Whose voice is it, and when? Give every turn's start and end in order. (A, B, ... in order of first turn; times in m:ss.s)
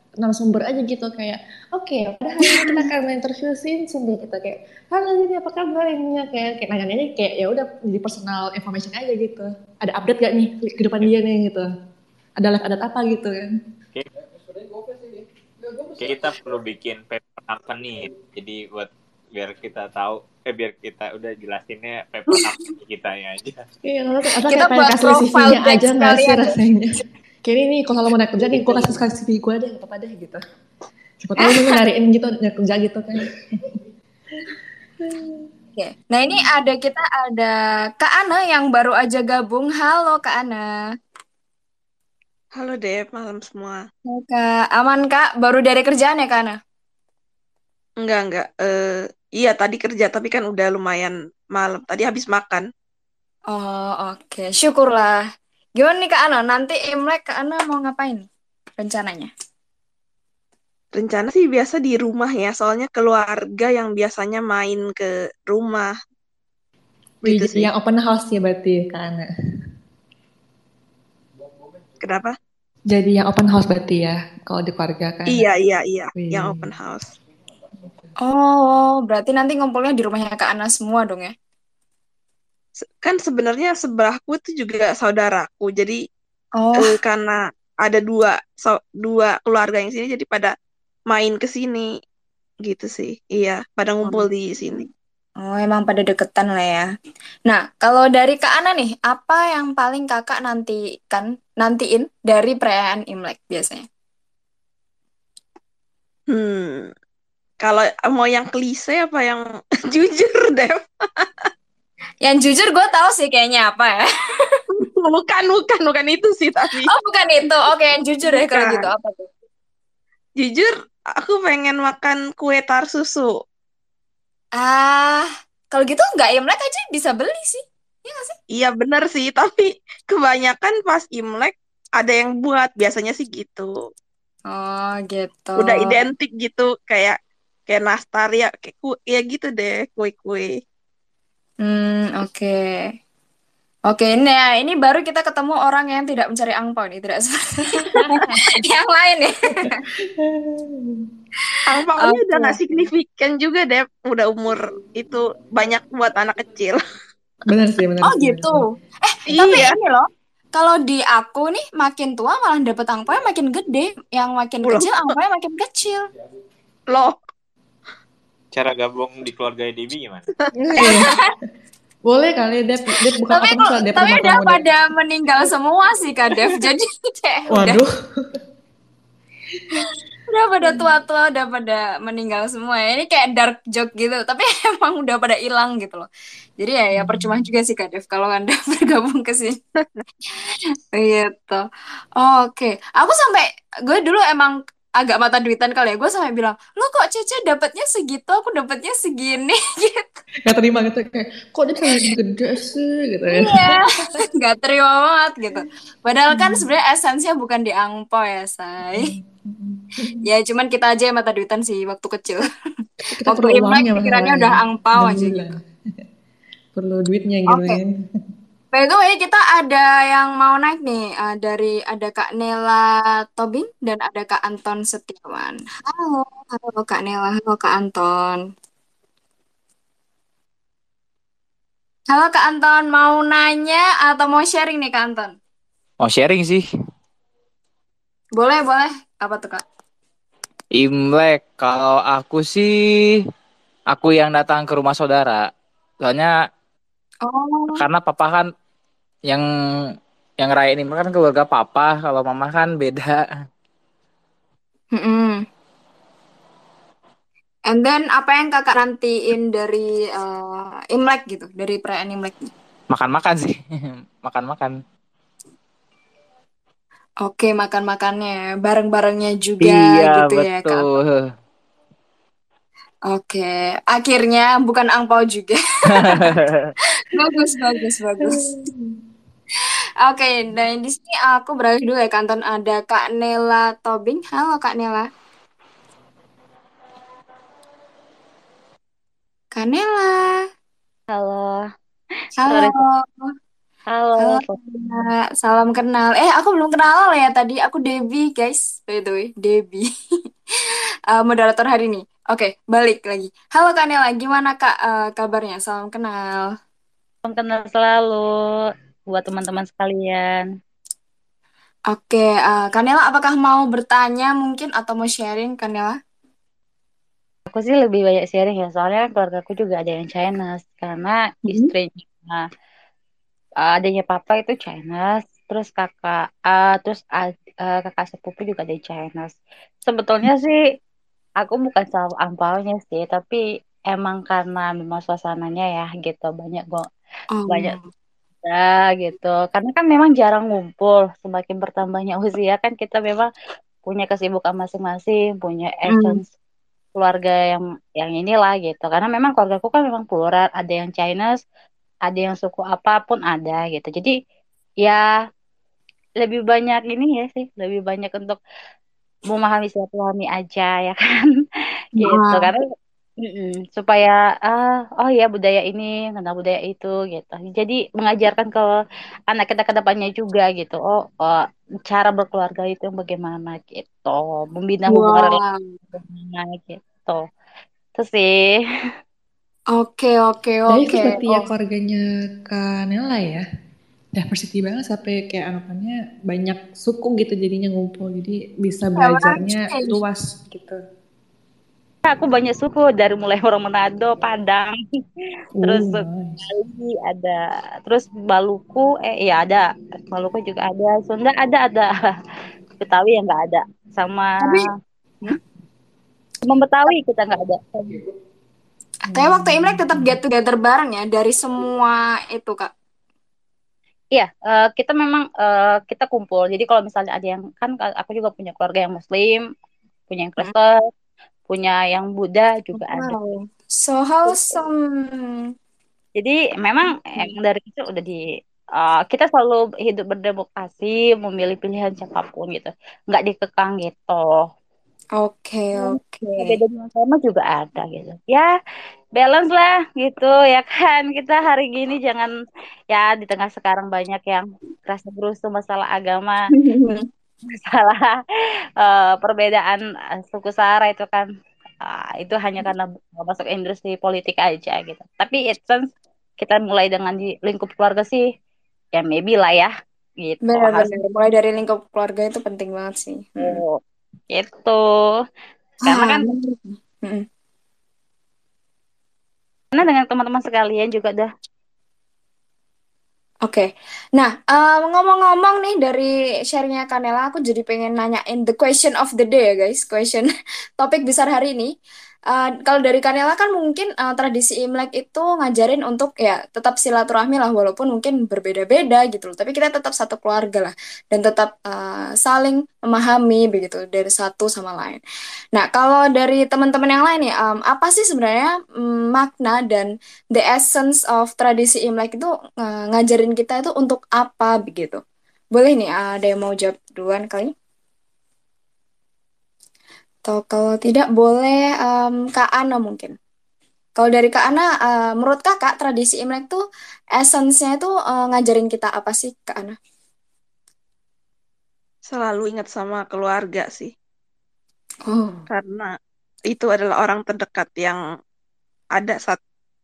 0:00.2-0:11.7 A
0:02.4-0:02.8 B
0:12.4-0:13.6 A
0:15.9-0:23.6 C
0:23.8-0:30.4 A
0:24.5-0:26.6 B
0:31.2-0:33.8 A
0:31.4-0:31.8 B
0:34.4-0:35.5 A
0:35.8-0:40.7 B
0:42.6-0:43.8 D
0:44.1-0:46.5 B
0:48.0-0:52.6 D
0:53.5-0:55.2 B
0:55.8-0:59.3 B
1:00.9-1:05.9 D
1:07.2-1:07.7 D
1:07.2-1:09.3 A
1:12.0-1:12.3 D
1:12.9-1:15.5 A
1:15.3-1:17.1 D
1:16.1-1:16.7 A
1:18.2-1:21.3 B
1:23.0-1:26.0 D
1:26.6-1:27.0 B
1:26.8-1:30.5 D
1:31.1-1:31.9 D
1:32.6-1:34.9 D
1:35.4-1:36.9 B
1:37.5-1:43.8 B
1:46.3-1:46.9 D
1:47.6-1:51.5 D
1:52.2-1:54.6 B
1:54.7-1:56.9 D
1:56.9-1:59.3 B
1:58.3-1:58.9 D
2:00.4-2:03.3 D
2:04.6-2:08.3 B
2:08.5-2:13.7 D
2:14.5-2:16.0 B
2:15.6-2:17.2 D
2:17.7-2:20.5 D
2:21.6-2:22.8 B
2:23.9-2:29.7 B
2:27.8-2:28.6 A
2:29.6-2:31.1 A
2:31.5-2:32.8 B
2:31.6-2:36.8 D
2:37.5-2:38.6 A
2:38.0-2:46.0 B
2:39.3-2:39.8 D
2:44.6-2:45.0 D
2:46.9-2:47.2 D
2:48.5-2:50.3 C
2:50.6-2:51.2 A
2:50.8-2:51.2 B
2:52.0-2:54.7 A
2:53.3-2:57.8 B
2:57.5-2:58.4 A
3:00.3-3:06.1 B
3:06.6-3:09.6 B
3:06.9-3:07.4 A
3:10.9-3:11.6 B
3:12.2-3:20.1 B
3:20.4-3:24.1 A
3:21.8-3:22.1 B
3:23.3-3:23.8 B
3:24.4-3:29.1 B
3:26.3-3:26.6 A
3:28.8-3:30.2 A
3:30.2-3:32.4 B
3:33.1-3:35.6 A
3:33.3-3:35.5 B
3:36.7-3:37.9 A
3:37.5-3:37.8 B
3:38.7-3:48.4 B
3:52.1-3:55.3 B
3:56.0-3:56.6 E
3:58.4-3:59.6 B
4:00.7-4:03.2 E
4:03.9-4:05.5 E
4:06.0-4:06.3 E
4:07.2-4:07.8 B
4:07.8-4:08.5 E
4:10.4-4:13.2 E
4:14.9-4:15.4 B
4:17.7-4:22.5 B
4:22.9-4:23.6 E
4:24.2-4:24.7 E
4:27.2-4:30.8 B
4:29.6-4:31.3 E
4:33.1-4:36.3 B
4:36.0-4:36.7 E
4:37.0-4:38.4 B
4:38.2-4:39.0 A
4:40.0-4:45.1 B
4:49.5-4:50.4 B
4:51.1-4:51.6 F
4:52.4-4:53.3 B
4:52.4-4:52.8 F
4:53.9-4:54.6 F
4:54.2-4:59.8 B
5:01.1-5:06.5 B
5:07.2-5:10.5 F
5:11.9-5:16.0 B
5:17.5-5:22.5 F
5:23.6-5:30.6 F
5:31.4-5:36.9 F
5:37.3-5:37.8 B
5:37.5-5:37.8 F
5:38.4-5:43.3 F
5:43.9-5:46.2 F
5:45.9-5:46.2 B
5:46.9-5:51.4 F
5:52.1-5:54.1 F
5:56.2-5:58.4 F
5:59.3-6:01.4 F
6:02.0-6:02.7 F
6:02.0-6:02.5 B
6:03.2-6:08.7 F
6:09.3-6:15.4 F
6:14.9-6:15.6 B
6:16.0-6:17.2 F
6:18.0-6:18.6 F
6:19.7-6:21.5 B
6:20.7-6:23.4 A
6:24.1-6:30.8 A
6:29.0-6:29.9 B
6:32.1-6:34.8 F
6:35.6-6:36.4 A
6:35.6-6:41.9 F
6:42.8-6:44.6 F
6:44.4-6:44.7 B
6:46.4-6:48.0 F
6:49.1-6:52.7 B
6:49.1-6:50.2 A
6:54.1-6:59.4 F
7:00.1-7:00.7 F
7:01.5-7:03.2 F
7:02.8-7:05.5 B
7:04.3-7:04.6 F
7:06.2-7:08.2 F
7:08.8-7:14.5 F
7:15.2-7:16.6 B
7:15.8-7:18.5 F
7:19.2-7:22.3 F
7:22.9-7:26.4 F
7:26.6-7:27.0 B
7:27.5-7:28.2 F
7:28.8-7:29.8 F
7:30.3-7:31.3 F
7:31.8-7:35.9 F
7:36.4-7:38.2 F
7:38.9-7:41.0 F
7:40.5-7:43.6 B
7:43.4-7:43.8 F
7:44.3-7:44.8 F
7:45.8-7:46.3 F
7:45.8-7:47.2 B
7:49.7-7:51.3 F
7:53.4-8:01.7 B
8:02.3-8:15.0 B
8:15.5-8:25.0 B
8:25.5-8:27.5 B
8:30.2-8:33.1 B
8:34.0-8:36.6 B
8:37.2-8:39.8 B
8:42.1-8:43.9 D
8:45.1-8:45.4 B
8:45.5-8:45.9 D
8:46.5-8:48.0 D
8:49.0-8:49.4 D